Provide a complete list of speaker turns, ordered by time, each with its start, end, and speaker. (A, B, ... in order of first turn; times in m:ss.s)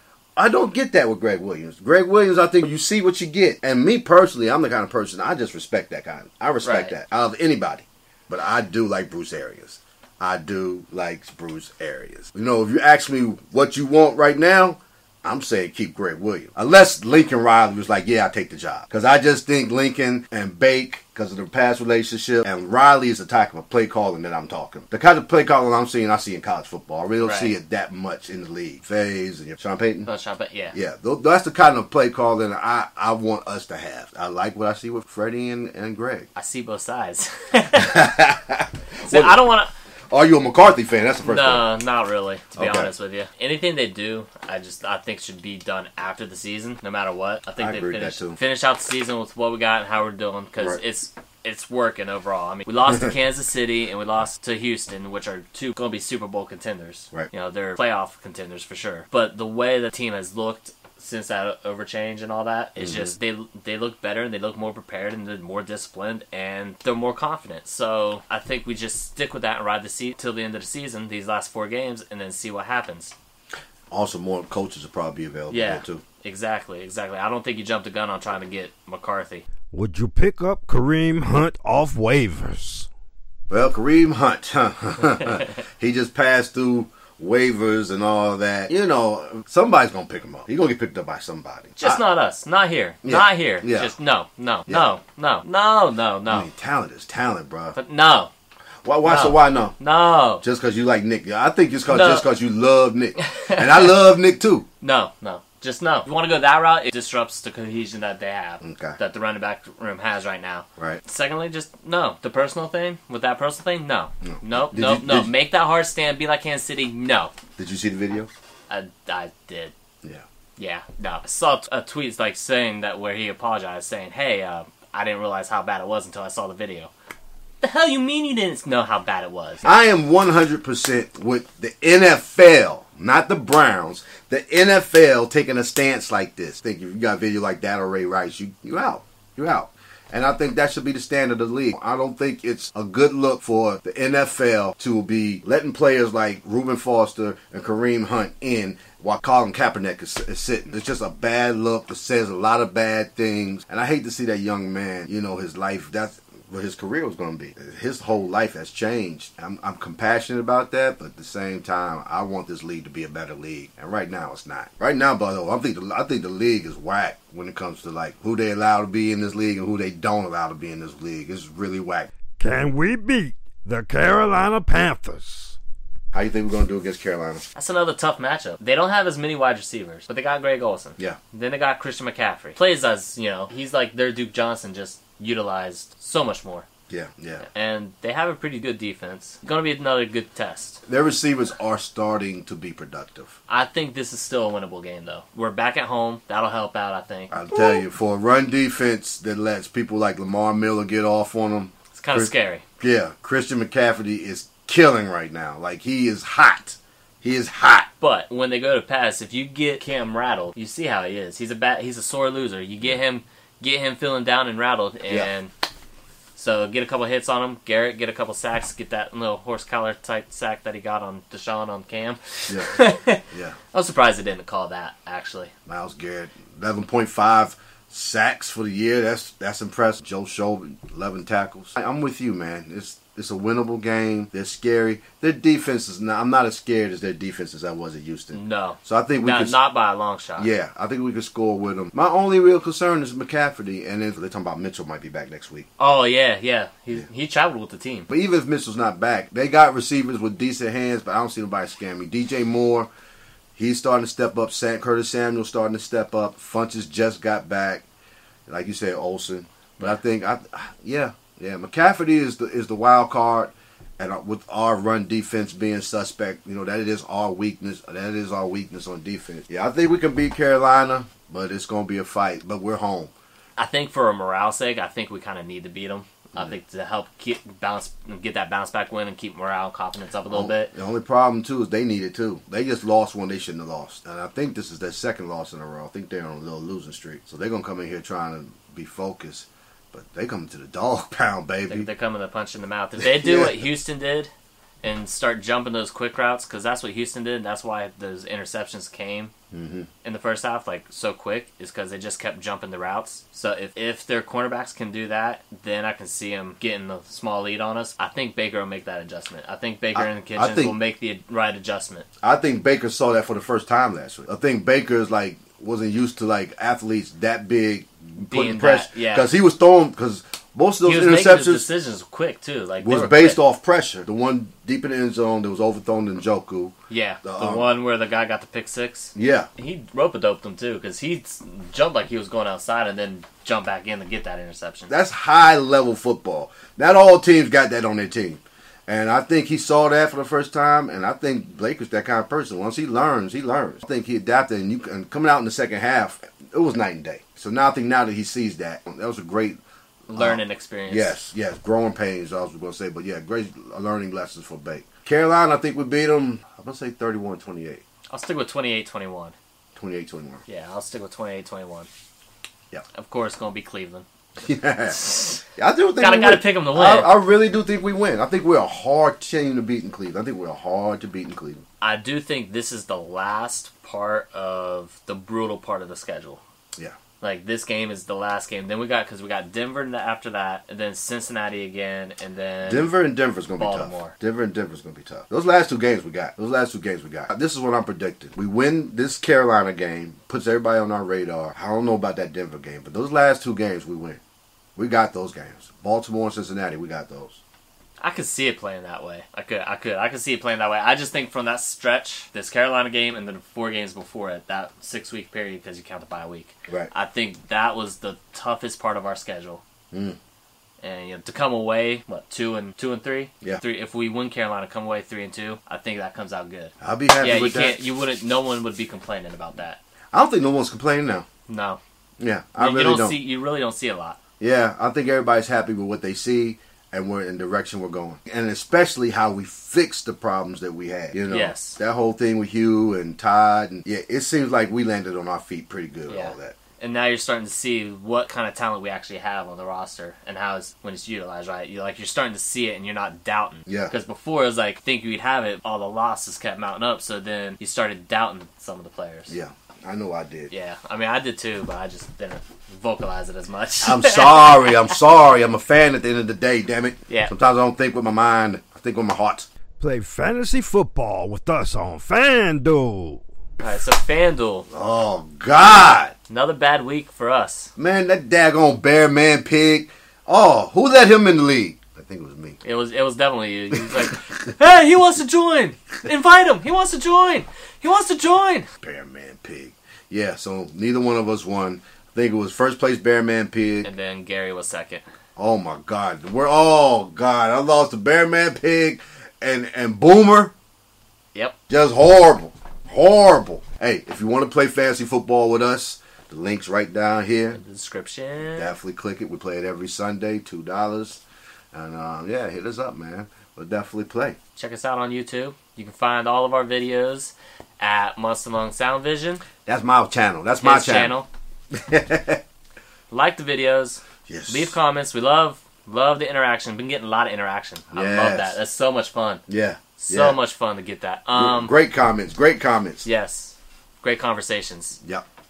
0:00.4-0:30.1 A
0:06.6-0:06.9 B
0:27.2-0:27.5 B
0:30.0-0:30.7 B
0:30.7-0:36.3 A
0:36.4-0:38.0 B
0:37.7-0:39.4 A
0:39.0-0:39.7 B
0:40.1-0:41.7 A
0:41.2-1:13.1 B
0:42.6-0:42.9 A
0:47.6-0:48.4 A
1:02.8-1:03.1 A
1:13.9-1:16.0 A
1:15.5-1:19.4 B
1:19.7-1:22.9 A
1:23.5-1:32.0 A
1:31.8-1:36.5 B
1:33.0-1:33.9 A
1:36.3-1:37.8 A
1:37.7-1:38.3 B
1:38.8-1:39.8 A
1:39.0-1:40.4 B
1:40.4-1:44.6 A
1:41.8-1:42.3 B
1:43.2-1:43.9 B
1:44.8-1:57.3 B
1:48.6-1:49.0 A
1:54.2-1:55.3 A
1:57.6-1:58.3 A
1:58.7-1:59.7 B
2:00.6-2:06.9 B
2:07.6-2:09.7 B
2:09.6-2:54.7 A
2:52.4-2:55.6 C
2:56.1-2:57.4 A
2:57.5-3:06.6 B
3:06.9-3:07.4 A
3:07.4-3:10.8 B
3:10.9-3:13.3 A
3:13.5-3:17.8 B
3:17.3-3:27.9 A
3:21.9-3:22.6 B
3:28.0-3:35.5 B
3:36.4-3:45.5 B
3:42.5-3:42.7 A
3:43.3-3:43.6 A
3:45.7-3:59.6 A
3:58.3-4:00.5 B
4:00.4-4:05.7 A
4:05.8-4:08.1 B
4:08.1-4:12.9 A
4:13.6-4:17.8 A
4:18.5-4:33.1 A
4:33.6-4:40.7 B
4:40.2-4:51.9 A
4:51.7-4:54.3 B
4:53.0-4:53.6 A
4:54.8-4:59.3 B
4:59.5-4:59.9 A
5:00.0-5:12.1 B
5:09.9-5:10.8 A
5:12.2-5:21.7 A
5:18.3-5:19.3 B
5:20.8-5:23.4 B
5:22.8-5:27.7 A
5:26.9-5:34.9 B
5:29.1-5:29.5 A
5:34.9-5:49.6 A
5:50.1-5:51.2 B
5:50.1-5:57.8 A
5:58.1-5:59.3 B
5:59.8-6:00.4 A
6:00.5-6:01.9 B
6:02.9-6:04.0 B
6:04.4-6:11.6 A
6:05.0-6:05.4 B
6:06.0-6:07.1 B
6:11.8-6:16.4 B
6:17.2-6:22.9 B
6:22.6-6:34.2 A
6:23.6-6:24.1 B
6:34.8-6:37.4 A
6:38.0-6:49.6 B
6:49.9-6:50.2 A
6:50.8-6:59.8 B
6:56.8-6:57.9 A
7:00.1-7:01.2 A
7:01.5-7:01.8 B
7:02.2-7:03.2 A
7:02.6-7:04.2 B
7:04.4-7:16.6 A
7:11.3-7:11.8 B
7:16.1-7:29.3 B
7:23.7-7:23.9 A
7:29.3-7:30.5 A
7:30.5-7:34.8 B
7:33.8-7:43.2 A
7:43.6-7:44.7 B
7:44.7-7:46.1 A
7:46.3-7:47.7 B
7:47.8-7:52.6 A
7:52.6-7:58.7 B
7:58.8-8:03.9 A
8:03.8-8:05.0 B
8:05.4-8:10.5 A
8:11.7-8:17.6 A
8:17.5-8:18.7 B
8:18.5-8:21.2 A
8:21.7-8:24.4 A
8:24.6-8:29.4 B
8:29.6-8:31.2 A
8:30.6-8:31.3 B
8:31.7-8:32.4 A
8:33.1-8:39.4 B
8:34.3-8:34.7 A
8:37.9-8:38.6 A
8:39.5-8:40.4 A
8:40.0-8:41.7 B
8:41.3-8:43.1 A
8:43.0-8:45.0 B